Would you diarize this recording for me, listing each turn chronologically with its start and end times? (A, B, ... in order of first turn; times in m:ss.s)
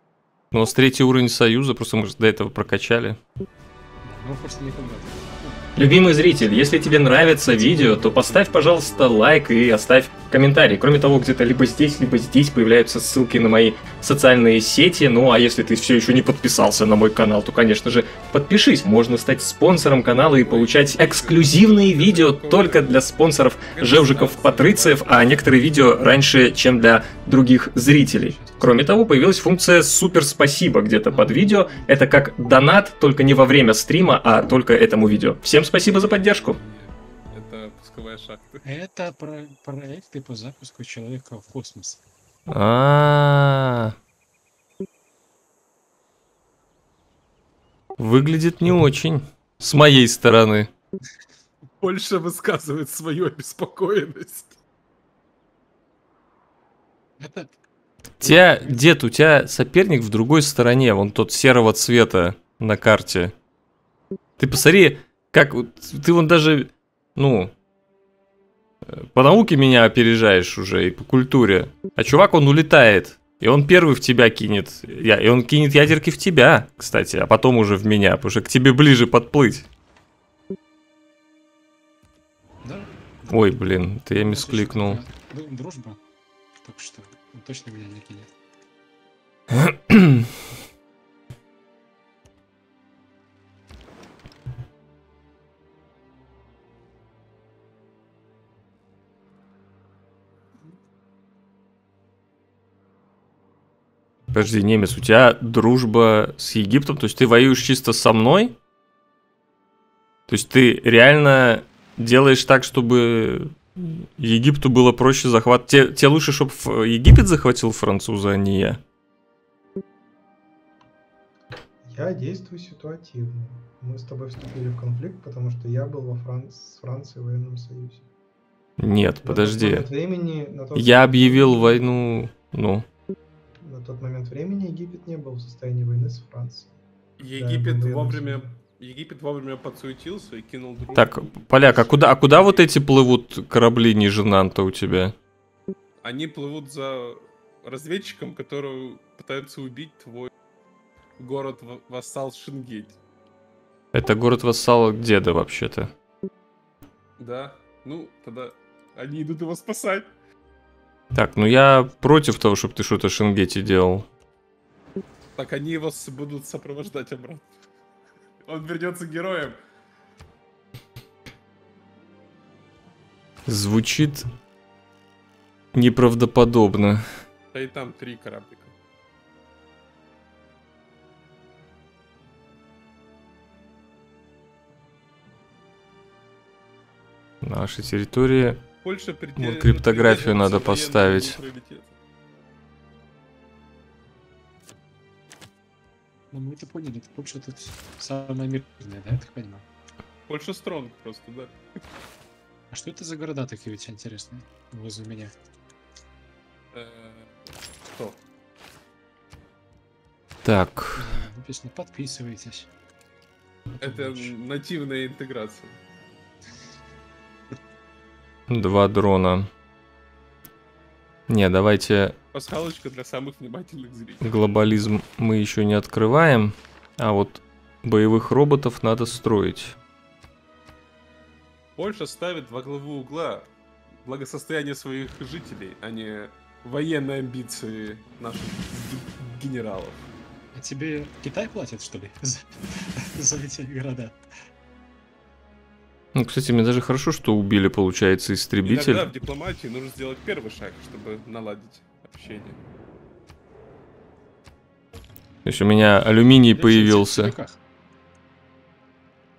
0:00.5-0:03.2 A
0:04.0-0:09.5 B
0:05.8-0:36.6 A
0:20.1-0:23.0 C
0:23.7-0:25.4 C
0:28.0-0:28.9 B
0:31.1-0:32.0 B
0:35.8-0:38.6 C
0:38.6-0:42.0 B
0:42.5-0:43.9 A
0:48.0-0:50.7 A
0:51.8-0:54.6 C
0:57.2-0:57.5 B
0:58.2-1:03.3 A
0:58.2-0:58.9 B
1:04.4-1:07.5 A
1:08.9-1:19.7 A
1:22.6-1:23.6 B
1:23.3-1:25.0 A
1:24.1-1:26.0 B
1:26.6-1:28.3 B
1:29.5-1:30.3 A
1:44.3-1:48.6 A
1:50.3-1:58.8 A
2:01.8-2:08.1 D
2:08.8-2:09.9 A
2:09.2-2:11.9 D
2:10.7-2:12.8 A
2:13.6-2:16.7 D
2:17.2-2:22.7 C
2:17.3-2:18.5 D
2:20.9-2:25.1 A
2:26.0-2:30.3 C
2:31.2-2:33.0 C
2:33.9-2:35.9 A
2:37.2-2:40.1 C
2:41.1-2:44.1 A
2:45.4-2:47.5 C
2:48.4-2:49.6 C
2:53.5-2:54.3 A
2:55.7-2:57.0 A
2:57.5-2:58.7 C
3:07.4-3:08.6 A
3:08.8-3:11.9 C
3:09.4-3:11.4 A
3:16.3-3:19.6 B
3:20.3-3:21.6 C
3:22.7-3:25.3 B
3:26.7-3:28.2 C
3:30.4-3:31.2 A
3:31.0-3:32.7 B
3:33.8-3:34.3 B
3:33.8-3:35.8 C
3:38.5-3:39.5 A
3:41.3-3:42.2 A
3:42.3-3:44.3 C
3:44.2-3:49.8 A
3:51.8-3:53.5 C
3:54.0-4:00.0 C
4:00.5-4:04.2 B
4:06.1-4:09.1 A
4:08.6-4:12.6 C
4:15.4-4:17.4 A
4:16.5-4:17.6 B